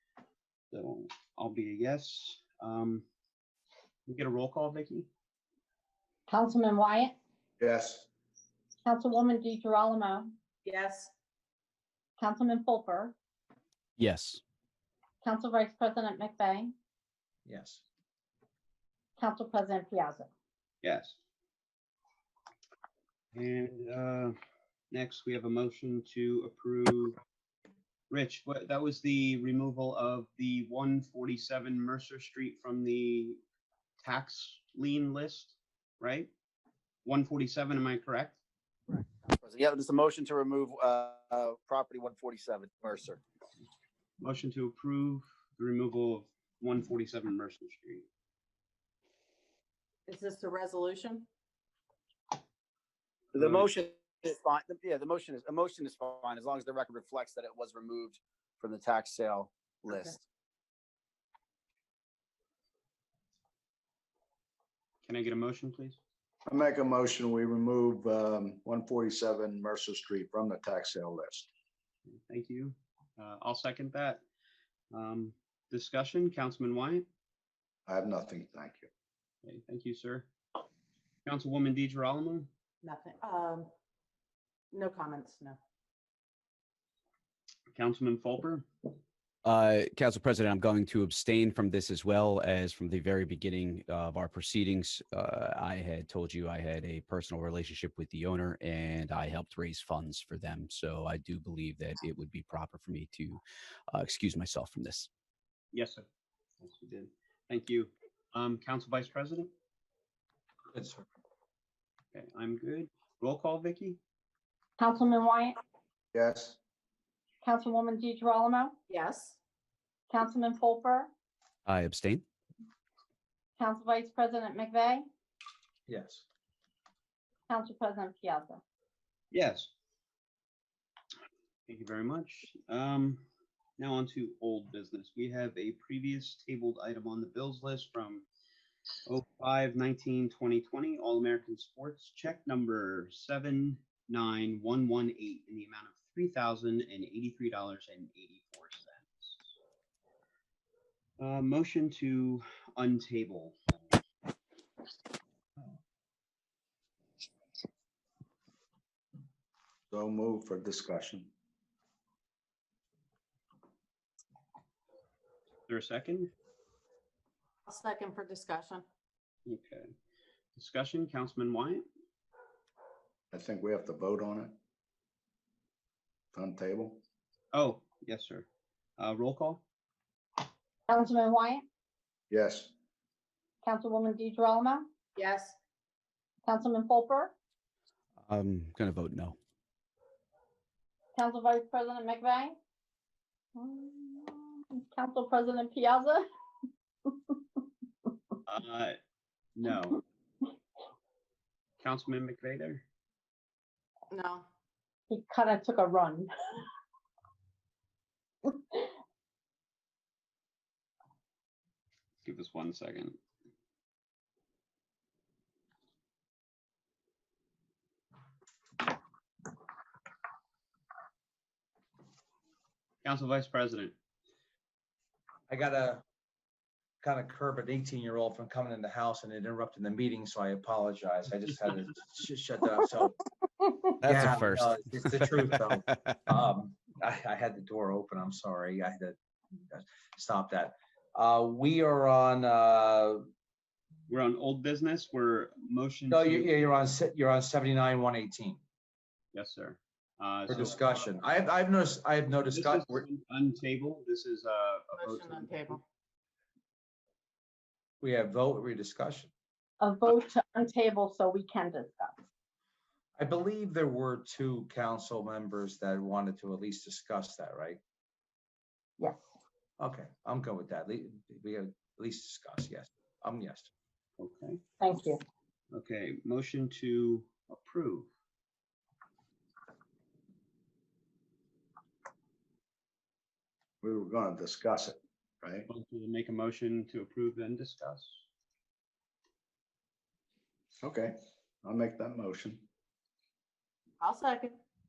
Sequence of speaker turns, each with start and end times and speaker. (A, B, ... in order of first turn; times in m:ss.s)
0:00.7-0:03.1 A
0:04.1-0:05.1 A
0:06.3-0:07.2 B
0:07.6-0:08.1 C
0:08.8-0:10.3 B
0:10.6-0:11.1 D
0:12.2-0:13.2 B
0:14.0-0:14.4 E
0:15.2-0:16.7 B
0:17.5-0:17.8 F
0:19.2-0:20.3 B
0:20.8-0:21.2 A
0:23.4-0:24.4 A
0:24.9-0:27.2 A
0:28.1-0:33.4 A
0:34.0-0:36.3 A
0:37.0-0:38.4 A
0:39.4-0:43.2 G
0:44.2-0:48.1 A
0:50.1-0:51.3 D
0:53.3-1:00.1 G
0:53.4-0:53.7 A
0:59.9-1:00.2 D
1:05.0-1:06.0 A
1:06.5-1:11.5 C
1:12.1-1:14.2 A
1:14.9-1:17.1 A
1:17.9-1:18.9 C
1:19.4-1:20.3 A
1:21.2-1:22.5 A
1:22.8-1:23.7 D
1:24.7-1:25.6 D
1:27.7-1:28.7 A
1:29.4-1:45.1 E
1:45.7-1:46.1 A
1:46.6-1:49.5 A
1:50.7-1:51.0 F
1:52.1-1:54.0 A
1:54.8-1:55.6 B
1:56.1-1:56.6 C
1:57.4-1:58.8 B
1:58.9-1:59.4 D
2:00.1-2:01.1 B
2:01.7-2:02.2 E
2:03.6-2:05.0 B
2:05.9-2:06.2 F
2:07.5-2:08.6 B
2:09.3-2:09.7 A
2:11.7-2:13.2 A
2:13.8-2:18.3 A
2:19.1-2:29.4 A
2:31.2-2:33.6 A
2:39.9-2:41.3 C
2:45.7-2:46.3 A
2:47.7-2:48.8 D
2:49.5-2:49.9 A
2:50.6-2:51.8 A
2:53.3-2:54.6 C
2:56.3-2:57.0 C
2:57.5-2:59.6 A
3:00.9-3:01.6 B
3:02.3-3:02.7 C
3:03.6-3:04.9 B
3:05.2-3:05.6 D
3:06.4-3:07.3 B
3:08.3-3:09.4 E
3:11.2-3:12.6 B
3:13.6-3:16.2 B
3:18.5-3:19.0 A
3:19.6-3:20.0 A
3:21.8-3:22.8 A
3:24.1-3:24.4 D
3:25.1-3:26.3 B
3:32.2-3:33.2 A
3:43.0-3:44.0 A
3:45.5-3:46.0 F
3:47.0-3:53.2 F
3:54.0-3:55.9 E
3:54.0-3:59.2 F
3:59.7-4:03.3 F
4:04.1-4:06.6 A
4:06.1-4:08.6 F
4:09.3-4:11.1 A
4:10.5-4:13.1 F
4:12.5-4:15.8 A
4:15.0-4:15.8 D
4:18.0-4:19.3 F
4:19.8-4:22.1 B
4:23.2-4:27.8 F
4:29.8-4:33.7 F
4:34.2-4:34.6 A
4:34.8-4:35.2 B
4:35.7-4:38.1 A
4:43.8-4:45.7 C
4:45.7-4:48.2 A
4:50.8-4:52.6 C
4:54.0-4:54.6 D